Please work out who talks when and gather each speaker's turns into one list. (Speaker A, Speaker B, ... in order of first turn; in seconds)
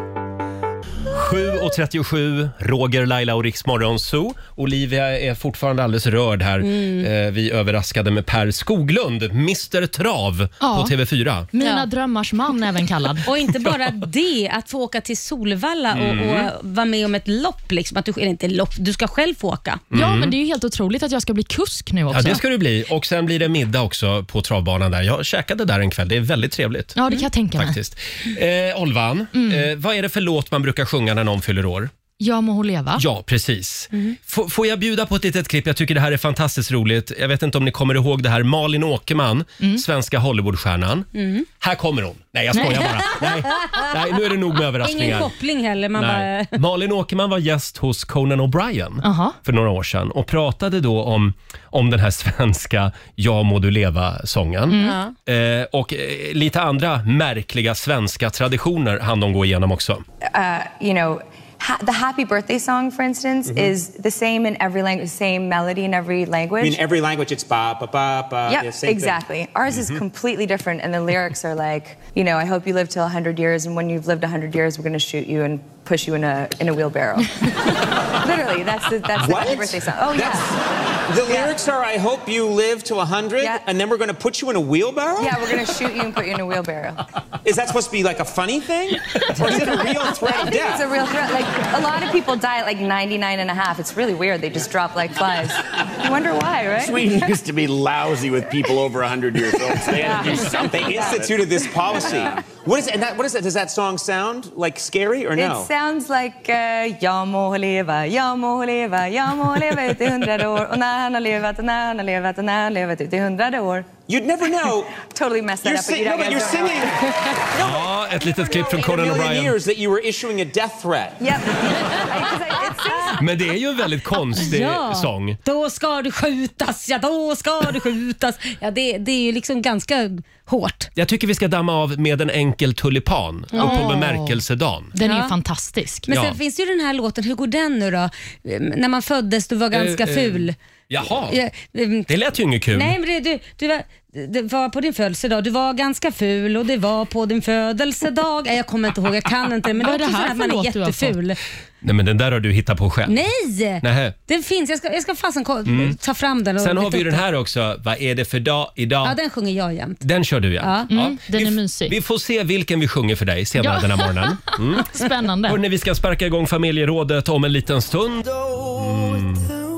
Speaker A: 1.1-11.5, 13.6-13.9, 15.9-16.5, 19.9-20.3, 22.1-27.0, 27.5-31.9, 33.0-41.1, 41.6-45.3, 46.0-60.0, 69.7-70.0, 117.6-119.5, 123.2-125.4, 130.9-134.9, 136.1-136.4, 139.7-141.4, 142.1-142.9, 151.8-153.2, 153.8-154.1, 155.7-156.0, 156.6-159.2, 160.0-164.8, 165.4-169.5
Speaker B: 6.6-7.1, 11.6-11.8, 13.2-19.8, 41.1-41.4, 43.5-43.8, 44.8-46.5, 54.8-55.1, 124.4-130.9, 133.5-133.8, 135.0-135.3, 136.1-140.6, 141.3-142.1, 142.7-151.4, 153.1-157.2, 159.0-160.0, 160.6-160.9
Speaker C: 10.6-10.9, 11.5-13.2, 19.9-22.4, 26.9-27.8, 29.3-29.6, 32.2-33.0, 42.5-42.9, 49.0-49.4, 54.7-55.0, 133.6-134.3, 134.9-136.1, 149.8-151.2, 160.9-162.0, 163.6-165.6
Speaker D: 60.2-66.8, 68.5-80.5, 85.2-87.0, 90.3-97.1, 105.3-114.0, 115.0-116.9, 121.2-123.2
Speaker E: 66.6-69.3, 79.1-85.7, 87.4-91.2, 99.7-105.7, 114.0-115.0, 115.6-122.2
Speaker F: 96.8-101.3